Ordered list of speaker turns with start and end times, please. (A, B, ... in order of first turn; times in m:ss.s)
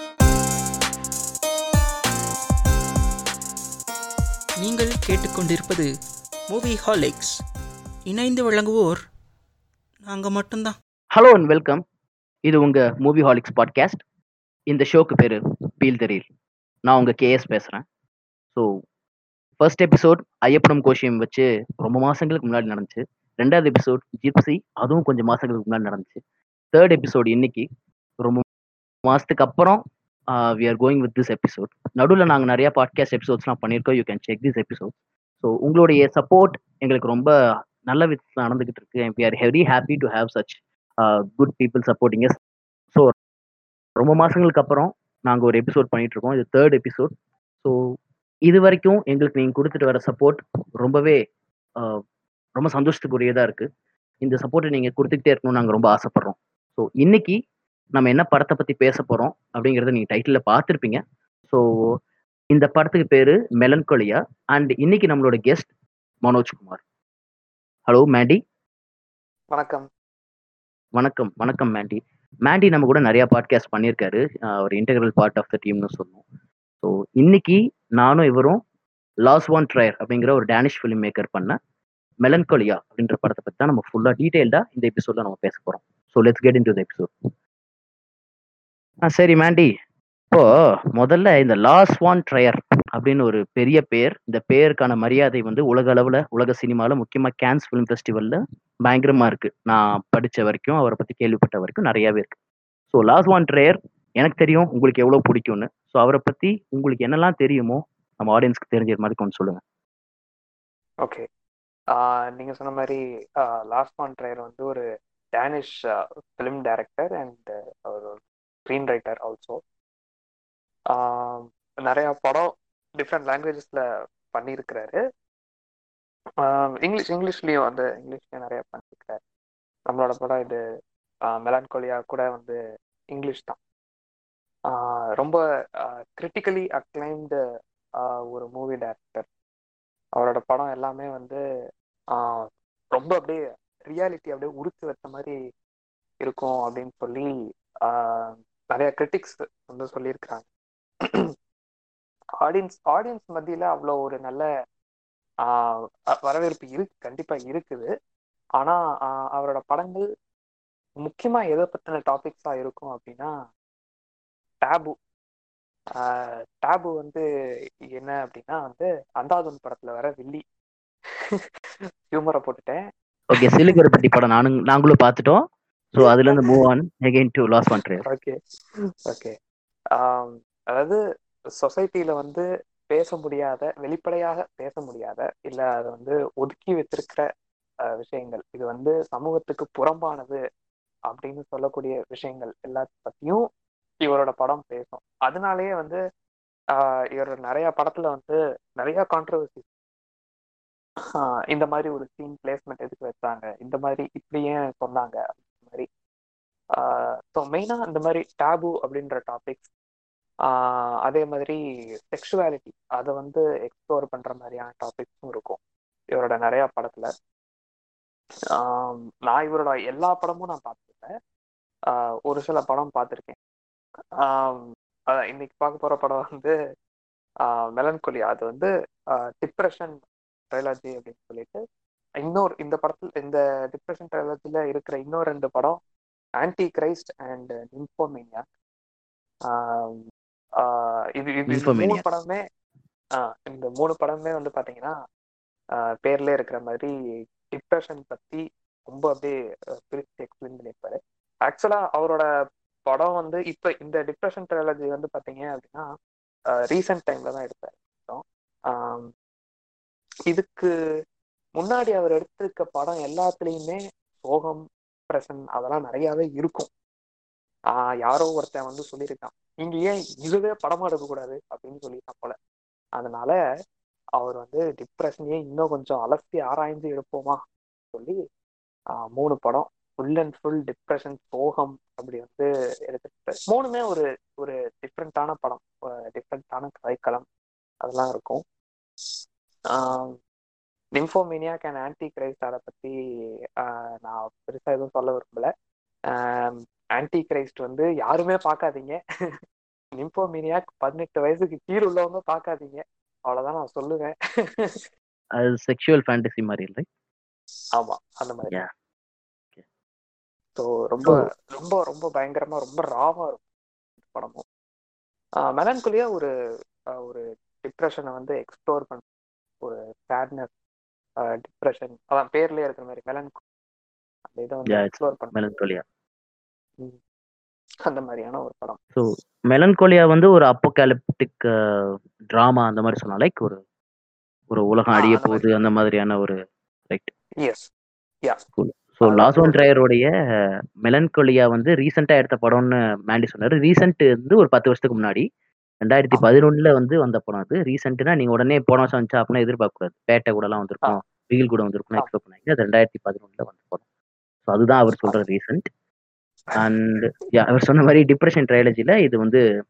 0:04.6-0:05.9 A
0:06.5-0:07.4 A
0:08.1-0:09.0 A
0:10.0-0:10.8 A
0:11.1-0:11.8 B
0:12.4-0:14.0 B
0:14.7-0:16.2 B
0:16.8-0:17.8 B
0:18.5-0:18.8 B
0:19.6-0:26.2 B
0:26.7-0:27.7 B
0:29.0-0:37.3 B
0:37.8-0:42.4 B
0:44.0-0:47.8 B
0:48.5-0:51.2 B
0:51.8-0:52.0 B
0:52.6-0:53.7 B
0:54.2-0:57.4 B
0:57.9-1:01.6 B
1:02.5-1:05.7 B
1:06.2-1:06.8 B
1:07.9-1:08.4 B
1:09.5-1:09.9 C
1:11.0-1:16.2 B
1:16.8-1:18.6 B
1:19.2-1:21.6 B
1:22.2-1:27.1 B
1:29.0-1:29.7 B
1:30.3-1:42.4 B
1:42.9-1:49.6 B
1:52.0-1:54.8 C
1:55.4-1:55.8 C
1:56.4-1:59.6 C
2:00.9-2:03.8 C
2:04.3-2:05.0 C
2:06.4-2:09.2 C
2:09.9-2:10.6 C
2:11.3-2:12.6 C
2:13.1-2:13.6 C
2:14.7-2:17.4 C
2:18.0-2:19.3 C
2:20.2-2:21.4 C
2:22.1-2:25.3 C
2:26.2-2:27.3 C
2:27.8-2:30.4 C
2:31.0-2:31.3 C
2:32.4-2:34.5 C
2:35.4-2:37.9 C
2:38.6-2:40.1 C
2:41.0-2:43.3 C
2:44.6-2:44.9 C
2:46.0-2:47.2 C
2:48.0-2:50.4 C
2:52.1-2:52.8 C
2:53.3-2:55.4 B
2:55.9-2:58.1 B
2:56.2-2:56.5 C
2:58.0-2:58.4 C
2:59.1-2:59.4 C
3:00.0-3:01.0 C
3:01.6-3:07.2 C
3:08.0-3:10.4 C
3:11.1-3:13.4 C
3:14.0-3:16.0 C
3:16.8-3:19.6 C
3:21.2-3:25.9 C
3:26.8-3:29.7 C
3:30.5-3:31.6 C
3:32.1-3:35.6 C
3:36.1-3:37.1 C
3:38.6-3:41.1 C
3:42.3-3:43.4 C
3:44.2-3:46.5 C
3:47.5-3:48.7 C
3:49.4-3:50.0 C
3:50.5-3:51.6 C
3:52.2-3:55.8 C
3:56.4-3:58.4 C
3:59.5-4:00.0 C
4:00.6-4:02.4 C
4:01.5-4:02.0 B
4:03.2-4:04.9 C
4:06.0-4:06.9 C
4:07.5-4:09.4 C
4:09.9-4:12.2 C
4:12.9-4:15.9 C
4:16.7-4:19.1 C
4:20.3-4:20.7 C
4:21.6-4:26.7 C
4:27.7-4:32.4 C
4:33.0-4:33.4 C
4:34.2-4:37.4 C
4:39.1-4:47.2 C
4:47.8-4:48.4 C
4:49.7-4:50.2 C
4:51.0-4:52.9 C
4:53.6-4:55.5 C
4:56.1-4:59.0 C
5:00.0-5:04.8 C
5:05.4-5:06.9 B
5:07.8-5:08.6 C
5:10.6-5:13.4 C
5:14.0-5:14.4 C
5:15.5-5:16.3 C
5:17.0-5:19.0 C
5:19.6-5:20.5 C
5:21.4-5:23.4 C
5:24.3-5:25.4 C
5:24.7-5:25.8 B
5:27.9-5:28.8 C
5:29.0-5:33.6 B
5:34.5-5:36.4 B
5:34.9-5:35.5 C
5:38.6-5:40.1 B
5:39.0-5:39.7 C
5:40.8-5:45.2 B
5:45.8-5:53.8 B
5:54.5-5:55.7 B
5:56.6-5:59.4 B